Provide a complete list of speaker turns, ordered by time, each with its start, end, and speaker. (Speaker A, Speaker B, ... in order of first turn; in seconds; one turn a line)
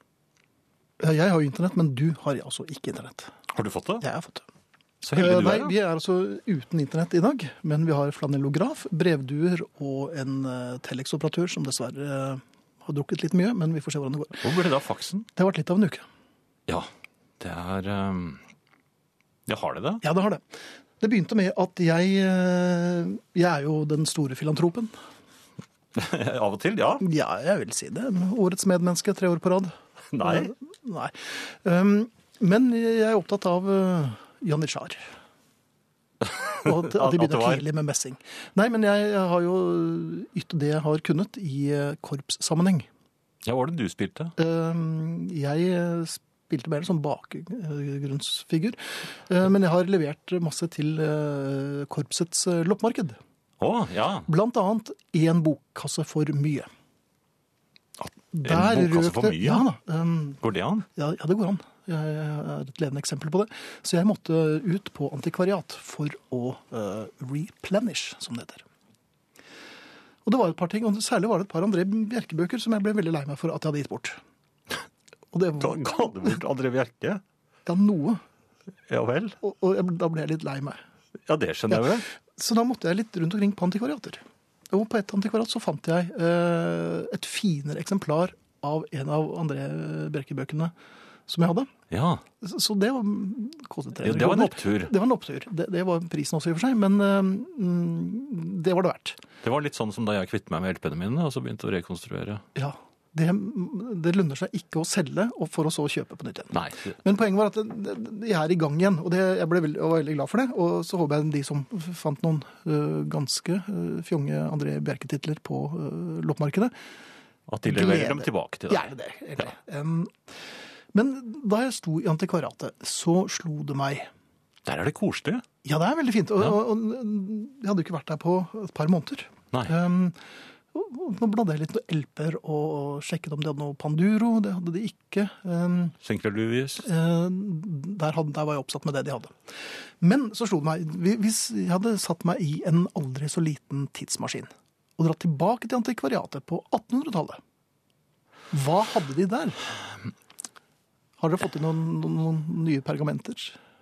Speaker A: 1.0-3.3
Speaker B: 3.5-4.0
Speaker A: 4.0-4.5
Speaker B: 5.0-5.8
Speaker A: 5.1-14.5
Speaker B: 14.4-15.3
Speaker A: 15.4-16.1
Speaker B: 17.4-18.4
Speaker B: 19.5-20.0
Speaker A: 20.0-24.9
Speaker B: 25.9-27.1
Speaker A: 27.0-35.0
Speaker B: 30.1-30.5
Speaker B: 36.2-37.6
Speaker A: 36.6-42.9
Speaker B: 43.5-44.3
Speaker A: 44.4-53.2
Speaker B: 53.6-54.3
Speaker A: 54.3-56.7
Speaker B: 58.0-59.7
Speaker A: 58.3-60.4
Speaker B: 60.4-60.9
Speaker A: 61.0-68.6
Speaker A: 70.2-74.2
Speaker A: 75.3-76.0
Speaker B: 75.6-77.2
Speaker A: 77.7-78.2
Speaker B: 78.9-79.4
Speaker A: 79.4-80.8
Speaker B: 81.3-82.0
Speaker A: 81.7-90.7
Speaker A: 91.3-91.7
Speaker B: 91.9-92.2
Speaker A: 92.4-99.2
Speaker B: 94.0-94.9
Speaker B: 99.4-102.4
Speaker A: 102.5-116.7
Speaker B: 106.5-107.0
Speaker B: 117.5-119.5
Speaker A: 117.6-120.2
Speaker A: 120.9-124.1
Speaker B: 124.7-125.4
Speaker A: 125.6-130.2
Speaker A: 130.7-135.9
Speaker B: 136.0-136.9
Speaker A: 136.8-147.4
Speaker A: 148.5-149.6
Speaker A: 151.2-153.6